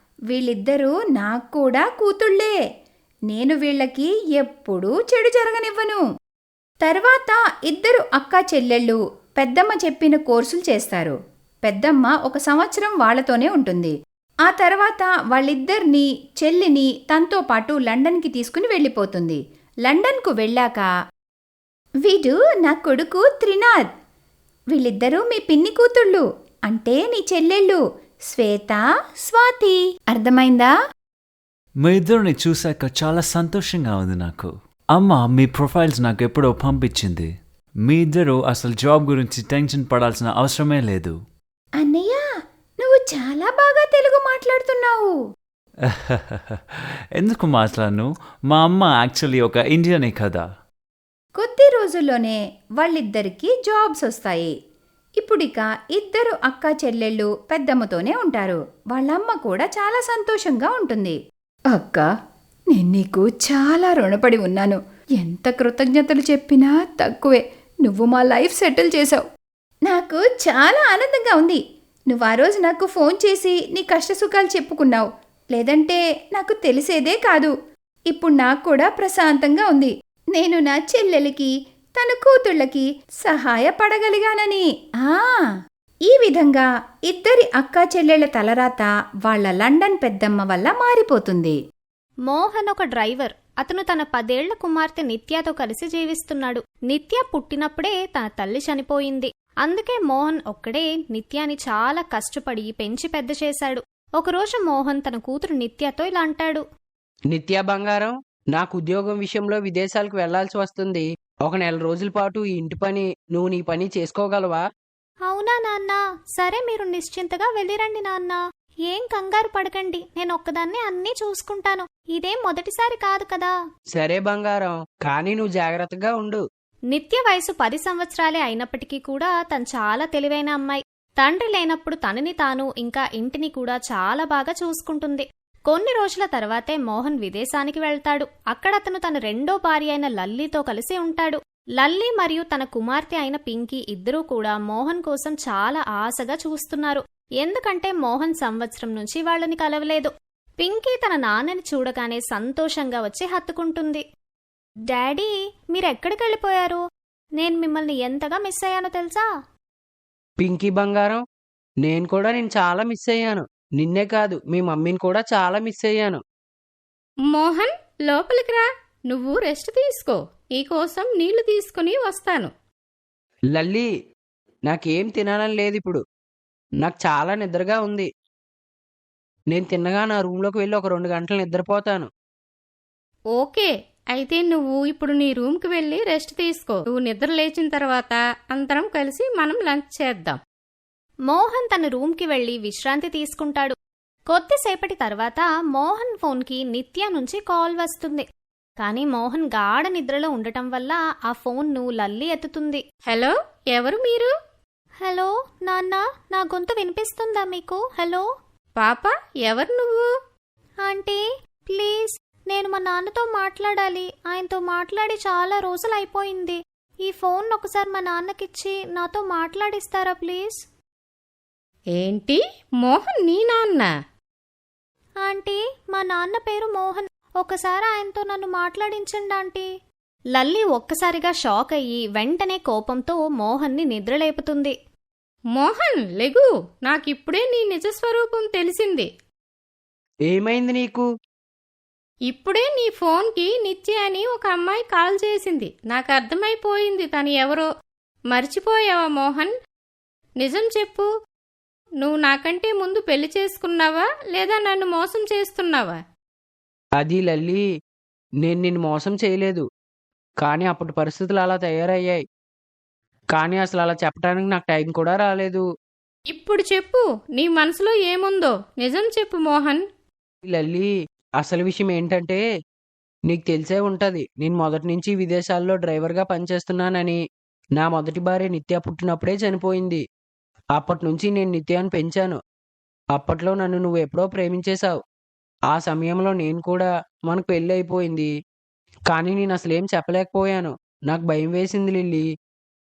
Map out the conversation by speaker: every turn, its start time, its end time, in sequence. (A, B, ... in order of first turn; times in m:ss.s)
0:00.3-0:02.5 A
0:03.3-0:06.0 A
0:06.8-0:13.9 A
0:14.4-0:20.9 A
0:22.0-0:23.9 A
0:24.7-0:30.7 A
0:31.8-0:37.3 B
0:37.8-0:41.2 B
0:41.8-0:42.2 A
0:42.8-0:45.1 A
0:45.8-0:50.4 B
0:51.4-0:54.5 A
0:55.2-1:01.2 A
1:01.7-1:02.1 A
1:02.7-1:09.2 A
1:09.9-1:11.6 A
1:12.1-1:17.5 A
1:18.1-1:25.5 A
1:26.1-1:31.6 A
1:32.3-1:46.6 C
1:47.3-1:54.6 D
1:55.3-2:03.5 C
2:04.0-2:06.4 D
2:06.9-2:34.0 C
2:34.9-2:36.8 C
2:37.4-2:39.3 C
2:40.4-2:41.2 D
2:41.8-2:46.2 D
2:47.3-2:52.5 E
2:53.5-2:53.9 D
2:54.7-2:56.0 D
2:56.8-2:58.1 D
2:59.5-3:02.1 D
3:03.4-3:10.4 E
3:11.3-3:13.8 C
3:14.3-3:18.3 C
3:18.8-3:22.8 C
3:23.1-3:24.3 E
3:25.0-3:28.3 C
3:28.8-3:30.1 E
3:30.8-3:40.6 C
3:42.0-3:43.9 E
3:45.2-3:49.7 C
3:50.3-3:54.7 C
3:55.6-3:59.1 E
4:00.3-4:01.1 D
4:02.3-4:07.7 E
4:08.3-4:09.5 E
4:10.4-4:11.1 E
4:12.0-4:16.0 E
4:17.0-4:17.6 D
4:18.4-4:19.6 D
4:20.4-4:22.2 D
4:23.3-4:25.6 D
4:26.3-4:29.8 E
4:30.5-4:32.4 D
4:33.3-4:37.2 D
4:37.8-4:40.0 D
4:40.7-4:42.4 D
4:43.1-4:45.0 D
4:45.7-4:48.3 D
4:49.1-4:52.2 D